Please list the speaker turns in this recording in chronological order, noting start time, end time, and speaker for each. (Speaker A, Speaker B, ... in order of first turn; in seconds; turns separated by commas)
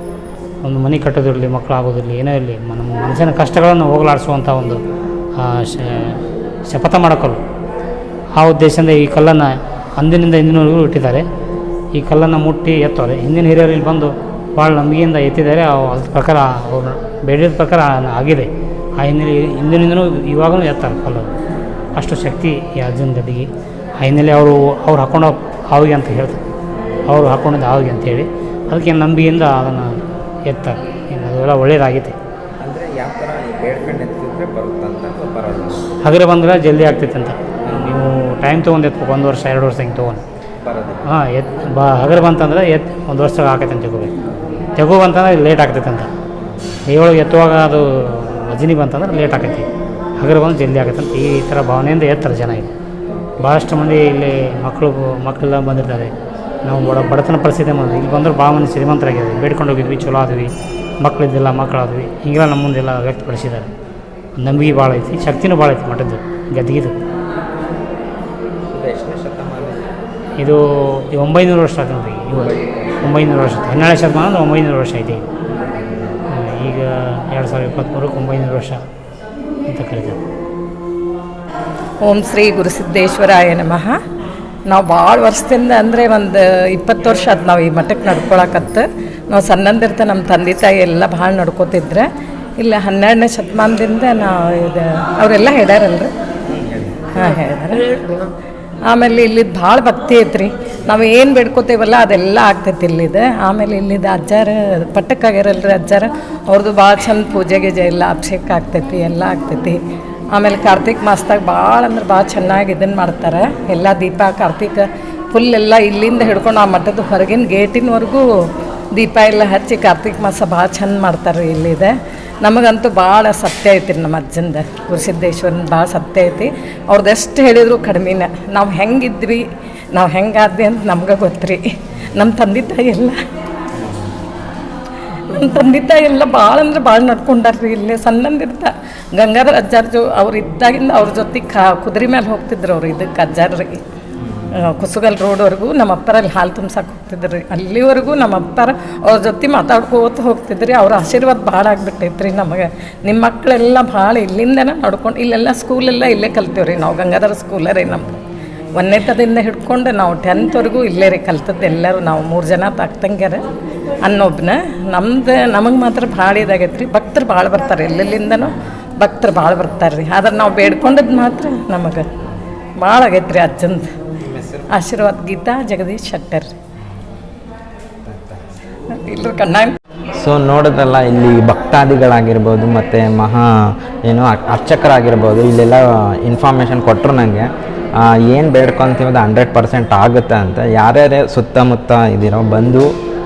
Speaker A: 0.6-4.8, Speaker A: 5.4-7.4, Speaker A: 8.4-11.2, Speaker A: 11.9-21.3, Speaker A: 22.0-26.4, Speaker A: 27.1-32.2, Speaker B: 32.6-35.9, Speaker A: 36.0-40.2, Speaker B: 40.6-41.0, Speaker A: 41.1-44.1, Speaker A: 44.8-46.1, Speaker A: 46.9-49.7, Speaker A: 50.2-52.7, Speaker A: 53.4-56.1, Speaker A: 56.6-63.7, Speaker A: 64.4-67.0, Speaker B: 68.7-69.9, Speaker A: 70.4-75.2, Speaker B: 72.3-73.2, Speaker B: 75.6-75.8, Speaker A: 76.3-78.8, Speaker A: 79.7-80.2, Speaker C: 82.0-83.9, Speaker C: 84.7-92.1, Speaker C: 92.6-96.1, Speaker B: 96.5-97.1, Speaker C: 97.1-98.1, Speaker C: 98.9-109.8, Speaker C: 110.3-118.2, Speaker C: 119.0-121.9, Speaker C: 122.4-129.4, Speaker C: 129.9-133.2, Speaker C: 135.3-143.8, Speaker B: 144.2-144.6, Speaker C: 144.6-158.2, Speaker C: 158.8-163.4, Speaker C: 164.1-172.1, Speaker C: 172.8-173.9, Speaker B: 174.2-174.7, Speaker C: 174.7-176.5, Speaker B: 178.1-178.4, Speaker C: 178.9-179.8, Speaker B: 180.2-192.9